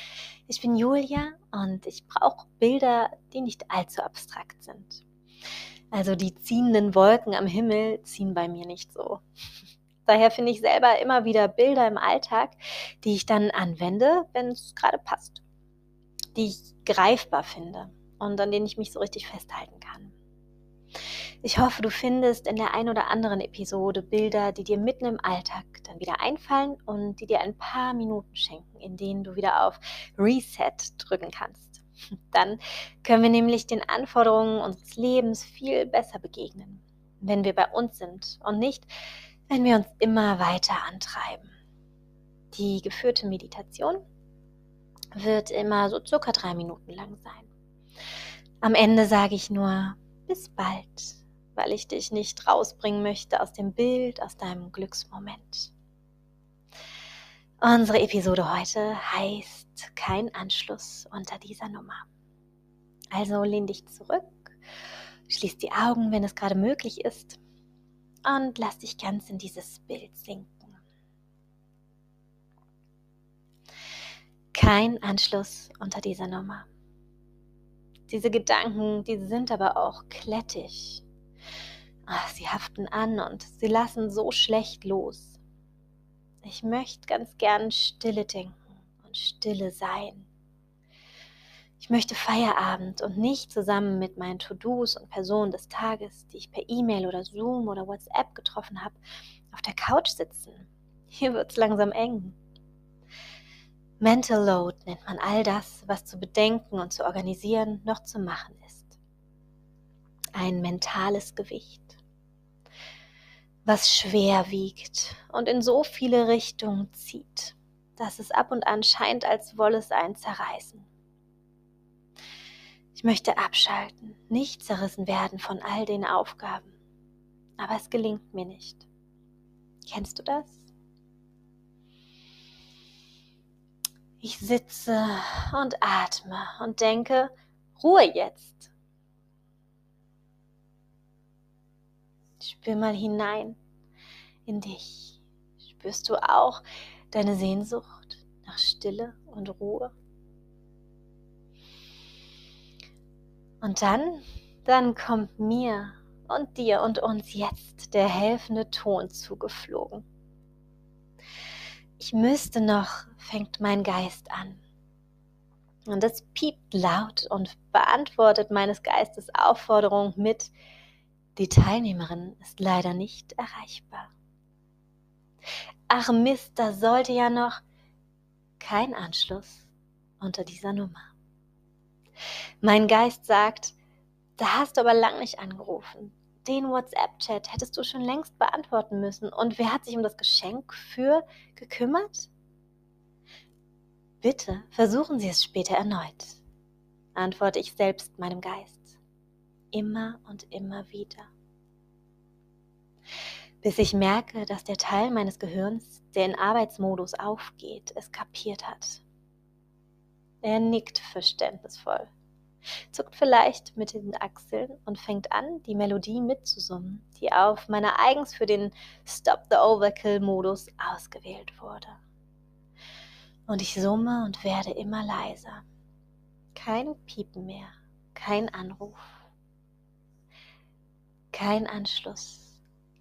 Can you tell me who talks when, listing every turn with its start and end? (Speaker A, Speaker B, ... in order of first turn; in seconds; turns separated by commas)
Speaker A: 0.5-5.0, Speaker A: 5.9-9.2, Speaker A: 10.1-15.4, Speaker A: 16.3-20.1, Speaker A: 21.4-38.9, Speaker A: 39.5-41.5, Speaker A: 42.5-44.0, Speaker A: 45.1-47.5, Speaker A: 48.6-55.7, Speaker A: 57.6-62.1, Speaker A: 63.1-64.6, Speaker A: 65.3-67.4, Speaker A: 68.2-70.8, Speaker A: 74.5-76.7, Speaker A: 78.1-81.0, Speaker A: 82.0-85.4, Speaker A: 86.4-90.3, Speaker A: 91.8-99.0, Speaker A: 99.5-102.3, Speaker A: 104.0-109.0, Speaker A: 110.3-112.0, Speaker A: 113.7-120.9, Speaker A: 122.9-126.7, Speaker A: 127.6-128.8, Speaker A: 129.8-130.7, Speaker A: 134.2-138.7, Speaker A: 142.4-143.6, Speaker A: 144.4-149.9, Speaker A: 153.6-160.0, Speaker A: 162.0-164.6, Speaker A: 165.8-170.5, Speaker A: 171.3-174.1, Speaker A: 175.9-177.6, Speaker A: 178.6-181.1, Speaker A: 182.6-183.7, Speaker A: 184.4-192.3, Speaker A: 194.2-196.4, Speaker A: 197.1-199.0, Speaker A: 199.7-201.3, Speaker A: 203.6-209.0, Speaker A: 210.4-212.1, Speaker A: 212.9-222.0, Speaker A: 223.5-225.6, Speaker A: 226.5-229.2, Speaker A: 231.3-232.6